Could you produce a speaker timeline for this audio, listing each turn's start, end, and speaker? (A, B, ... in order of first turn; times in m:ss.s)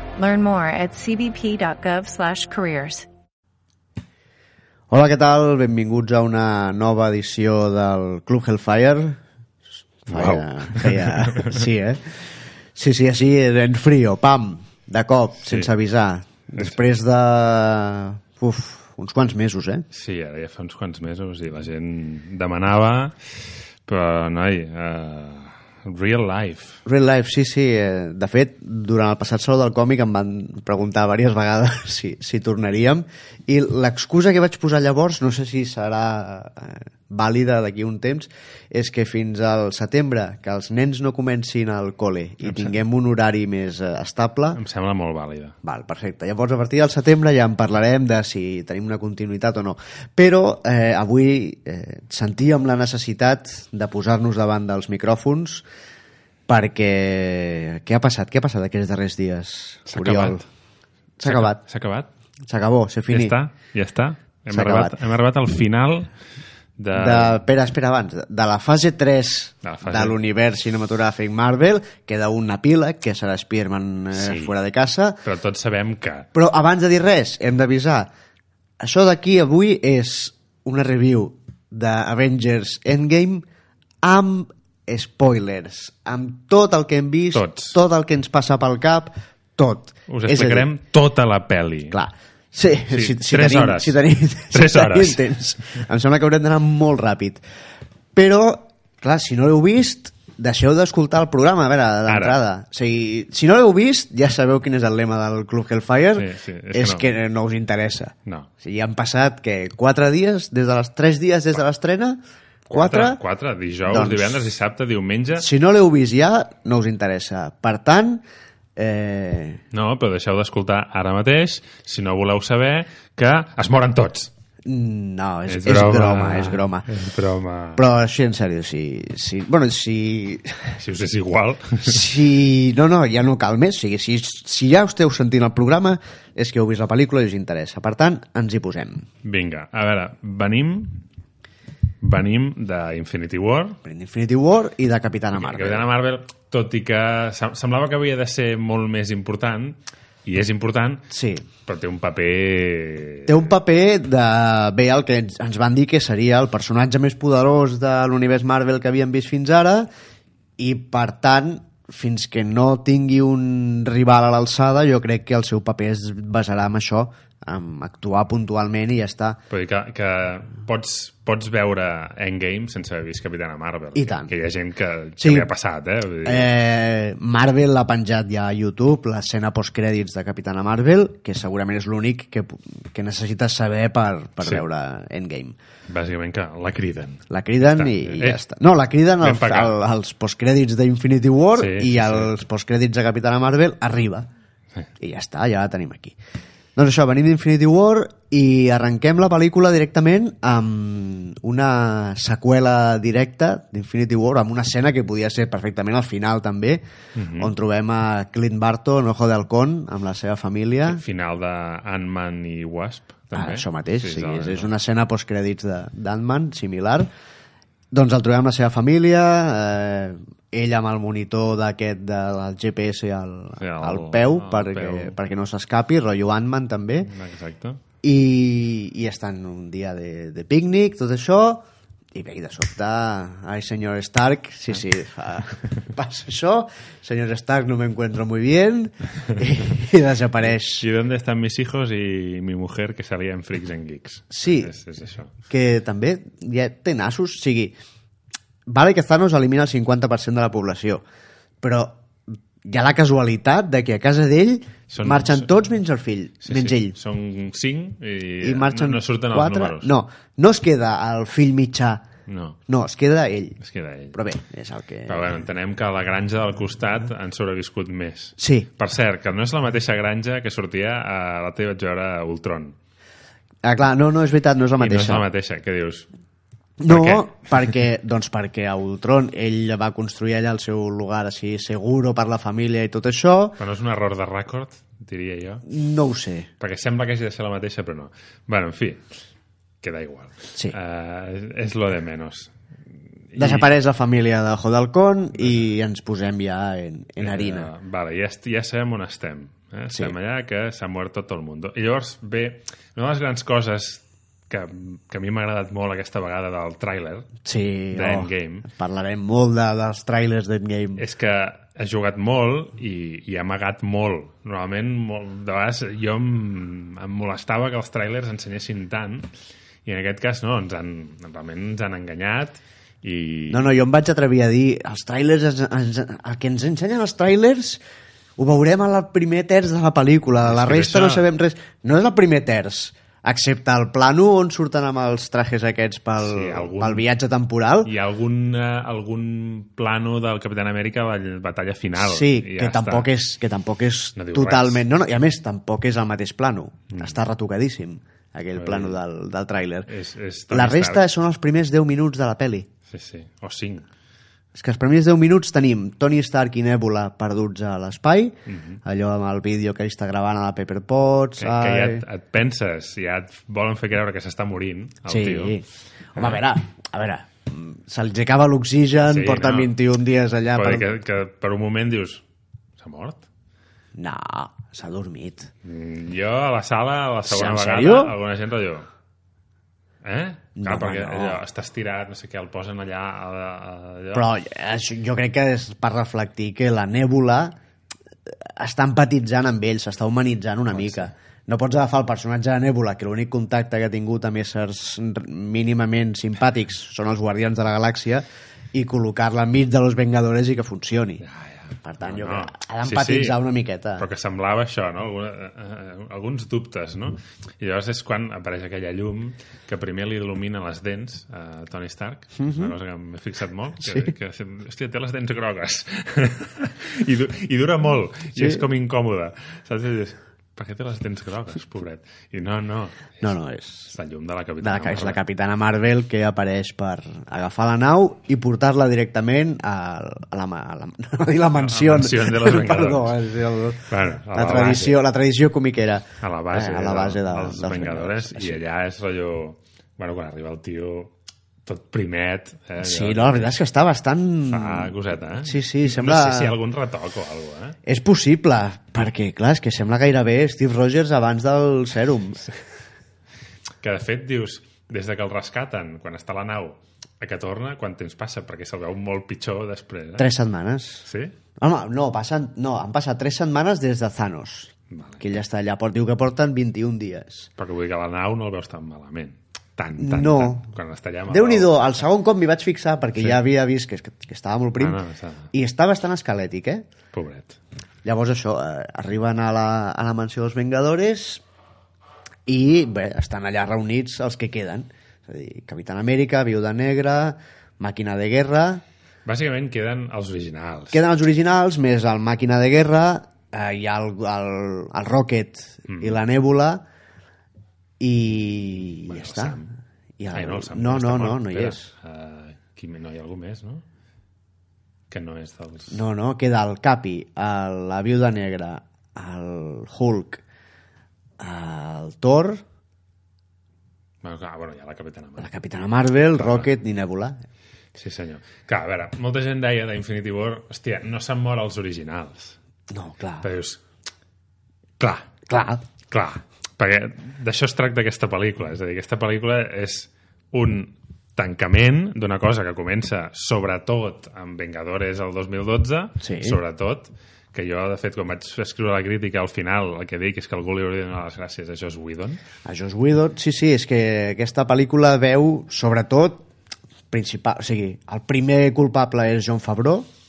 0:00.2-0:03.1 A
0:04.9-0:09.2 B
0:10.1-0:19.8 B
0:10.1-0:11.6 C
0:16.6-0:16.8 C
0:19.9-0:26.8 C
0:26.8-0:44.6 B
0:42.4-0:42.8 C
0:44.5-0:45.5 C
0:45.6-0:55.6 B
0:56.5-1:00.4 B
0:59.9-1:00.4 C
1:01.2-1:01.6 B
1:01.2-1:02.1 C
1:02.5-1:03.4 B
1:03.1-1:06.1 C
1:04.5-1:05.0 B
1:06.8-1:07.4 C
1:06.9-1:15.2 B
1:09.6-1:10.2 C
1:14.1-1:14.5 C
1:15.2-1:16.3 C
1:16.3-1:18.1 B
1:18.8-1:23.4 B
1:24.0-1:30.7 B
1:27.3-1:27.8 C
1:30.1-1:32.0 C
1:31.9-1:37.4 B
1:32.9-1:34.0 C
1:34.5-1:35.3 C
1:38.1-1:53.2 B
1:42.1-1:42.4 C
1:46.2-1:47.1 C
1:52.7-1:55.5 C
1:53.9-1:54.4 B
1:55.4-1:58.2 B
1:58.8-1:59.6 B
1:59.7-2:04.3 C
2:04.6-2:06.9 B
2:05.5-2:07.8 C
2:07.8-2:10.8 B
2:10.8-2:12.1 C
2:11.8-2:19.0 B
2:19.2-2:21.0 C
2:22.0-2:23.8 C
2:23.8-2:25.9 B
2:25.4-2:31.1 C
2:31.1-2:31.4 B
2:31.6-2:33.5 C
2:33.3-2:39.9 B
2:40.6-2:49.4 B
2:49.5-2:56.5 C
2:53.9-2:54.3 B
2:55.2-2:55.5 B
2:56.2-3:05.6 B
3:05.9-3:08.4 C
3:07.3-3:14.3 B
3:09.2-3:09.7 C
3:11.6-3:12.3 C
3:15.0-3:16.2 B
3:16.8-3:26.8 B
3:27.2-3:27.5 C
3:27.4-3:31.0 B
3:30.8-3:34.7 C
3:33.3-3:37.1 B
3:37.9-3:47.1 B
3:43.6-3:45.2 C
3:47.0-3:47.8 C
3:48.0-4:00.8 B
4:00.6-4:05.3 C
4:04.3-4:04.7 B
4:05.5-4:07.7 B
4:08.7-4:11.0 B
4:11.6-4:17.0 B
4:14.9-4:15.5 C
4:16.4-4:19.9 C
4:18.4-4:22.0 B
4:22.3-4:22.6 C
4:22.7-4:23.6 B
4:23.6-4:24.2 C
4:24.1-4:25.4 B
4:25.0-4:32.8 C
4:28.4-4:28.7 B
4:33.6-4:35.2 B
4:34.8-4:36.1 C
4:36.8-4:43.6 B
4:36.9-4:37.3 C
4:43.6-4:45.6 C
4:45.7-4:46.5 B
4:46.6-4:49.0 C
4:49.8-4:52.5 C
4:53.3-4:53.7 C
4:53.4-4:57.7 B
4:57.2-5:07.3 C
5:07.4-5:11.0 B
5:07.9-5:08.7 C
5:11.0-5:19.3 C
5:19.8-5:23.6 C
5:23.5-5:27.8 B
5:28.4-5:37.9 B
5:30.4-5:31.3 C
5:36.2-5:37.1 C
5:37.8-5:43.1 C
5:42.0-5:49.9 B
5:44.2-5:44.8 C
5:48.5-5:49.0 C
5:49.9-5:51.0 C
5:50.5-5:52.7 B
5:52.9-5:53.8 C
5:54.5-6:02.0 B
5:58.5-5:58.8 C
6:01.4-6:05.6 C
6:05.0-6:10.9 B
6:06.2-6:06.4 C
6:09.0-6:09.7 C
6:10.5-6:12.2 C
6:12.8-6:13.2 C
6:14.0-6:15.5 B
6:15.6-6:18.9 C
6:17.3-6:18.1 B
6:20.0-6:24.3 C
6:20.6-6:21.4 B
6:24.1-6:27.5 B
6:28.3-6:41.2 B
6:41.2-6:43.4 C
6:41.8-6:44.0 B
6:44.0-7:03.4 C
6:52.4-6:52.7 B
6:53.8-6:54.1 B
6:58.4-6:58.6 B
7:03.2-7:03.9 B
7:03.9-7:05.2 C
7:04.6-7:18.6 B
7:11.6-7:13.2 C
7:13.9-7:15.0 C
7:16.2-7:21.1 C
7:21.6-7:23.5 C
7:22.8-7:26.6 B
7:24.5-7:27.8 C
7:27.8-7:32.5 B
7:33.8-7:40.3 C
7:40.2-7:41.1 B
7:41.1-7:41.3 C
7:41.6-7:47.5 B
7:44.9-7:45.2 C
7:47.6-7:51.9 C
7:50.0-7:50.6 B
7:51.3-7:55.0 B
7:53.2-7:53.4 C
7:54.8-7:55.5 C
7:55.5-7:56.8 B
7:57.1-7:57.6 C
7:58.0-8:01.4 B
8:02.4-8:08.8 B
8:09.2-8:11.0 C
8:10.9-8:16.8 B
8:15.9-8:16.2 C
8:18.0-8:19.6 B
8:18.9-8:19.7 C
8:20.2-8:21.9 B
8:20.3-8:23.8 C
8:25.1-8:26.0 C
8:25.9-8:30.4 B
8:31.4-8:32.6 B
8:34.2-8:35.6 C
8:35.4-8:37.4 B
8:36.3-8:36.7 C
8:38.0-8:42.6 C
8:42.9-8:43.5 B
8:43.4-8:43.8 C
8:45.0-8:45.4 C
8:45.5-8:45.8 B
8:46.1-9:02.4 C
8:56.2-8:56.6 B
9:02.6-9:06.4 B
9:07.1-9:10.1 B